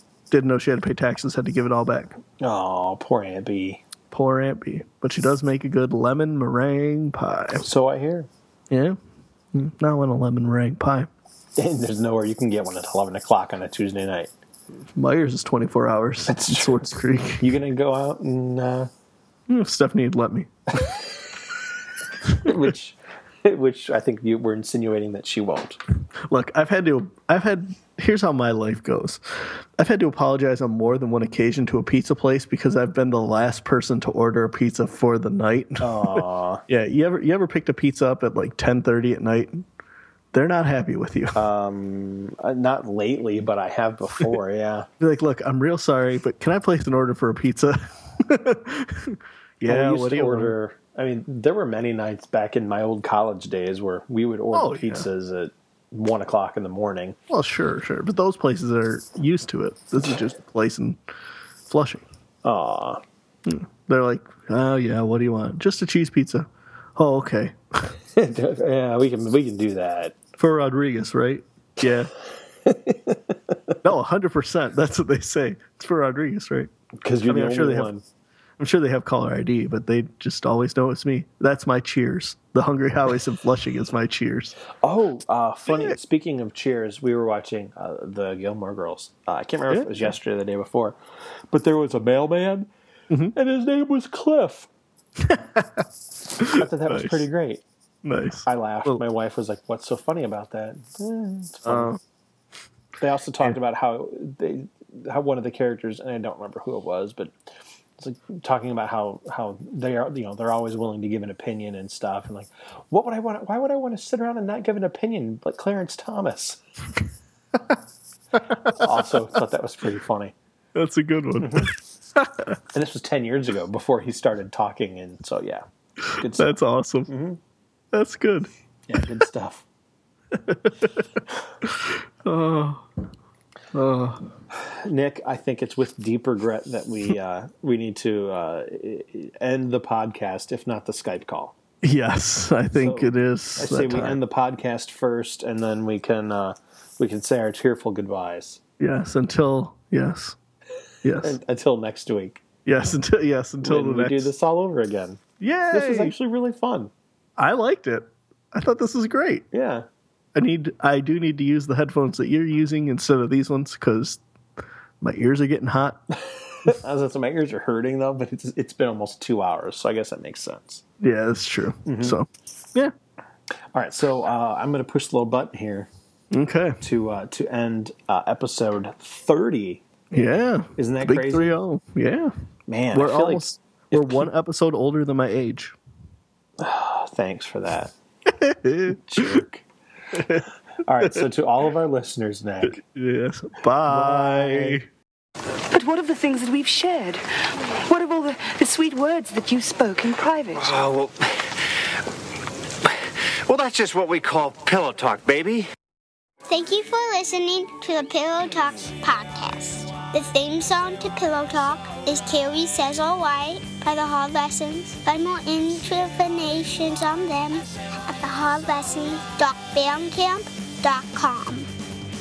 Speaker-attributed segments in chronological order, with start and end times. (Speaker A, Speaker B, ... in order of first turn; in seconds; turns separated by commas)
Speaker A: 0.3-2.2, Speaker B: 2.4-3.8, Speaker A: 4.1-7.6, Speaker B: 7.6-8.3, Speaker A: 8.7-9.0, Speaker A: 9.5-11.1, Speaker B: 11.6-14.3, Speaker A: 14.9-17.5, Speaker B: 16.3-18.9, Speaker A: 19.5-20.5, Speaker B: 22.3-25.8, Speaker A: 26.3-39.6, Speaker B: 35.8-36.6, Speaker A: 40.3-41.4, Speaker B: 41.3-44.9, Speaker A: 45.0-50.5, Speaker B: 49.6-57.2, Speaker A: 54.5-55.0, Speaker A: 57.3-61.0, Speaker A: 61.7-62.0, Speaker B: 62.4-63.0, Speaker A: 63.4-67.9, Speaker B: 68.1-70.2, Speaker A: 70.4-72.1, Speaker B: 72.6-73.8, Speaker A: 73.8-76.7, Speaker B: 77.0-78.0, Speaker A: 77.2-77.9, Speaker A: 78.6-84.5, Speaker B: 84.8-91.0, Speaker A: 89.7-90.1, Speaker B: 91.5-92.7, Speaker B: 93.3-94.7, Speaker A: 95.2-95.9, Speaker A: 96.4-97.3, Speaker B: 96.5-97.6, Speaker A: 98.0-99.0, Speaker B: 98.5-101.9, Speaker A: 101.6-102.0, Speaker B: 103.0-107.4, Speaker B: 108.0-116.6, Speaker A: 118.3-118.9, Speaker B: 118.7-120.3, Speaker A: 120.7-122.6, Speaker B: 121.4-121.7, Speaker B: 122.7-126.5, Speaker A: 126.1-127.1, Speaker B: 127.1-127.4, Speaker A: 127.9-128.5, Speaker B: 128.9-129.7, Speaker A: 130.3-131.0, Speaker A: 131.6-132.8, Speaker A: 133.7-134.3, Speaker B: 134.6-141.6, Speaker A: 141.8-144.2, Speaker B: 142.8-148.6, Speaker A: 148.8-150.4, Speaker A: 151.0-151.4, Speaker B: 151.2-152.4, Speaker A: 152.7-154.3, Speaker B: 153.6-156.9, Speaker A: 155.4-156.1, Speaker A: 157.4-159.4, Speaker B: 159.5-159.8, Speaker A: 160.3-164.2, Speaker A: 165.0-166.0, Speaker B: 166.5-170.8, Speaker A: 171.0-172.9, Speaker B: 171.8-172.2, Speaker B: 173.7-175.9, Speaker A: 176.3-176.8, Speaker B: 176.8-179.9, Speaker A: 180.1-182.3, Speaker B: 180.8-181.6, Speaker B: 182.7-184.3, Speaker A: 182.9-185.7, Speaker B: 186.6-187.9, Speaker A: 188.2-189.4, Speaker B: 188.9-189.7, Speaker A: 190.1-190.4, Speaker B: 190.8-192.8, Speaker A: 192.6-194.8, Speaker B: 193.8-194.8, Speaker C: 195.7-200.8, Speaker D: 200.7-201.3, Speaker D: 203.5-205.6, Speaker E: 206.5-221.7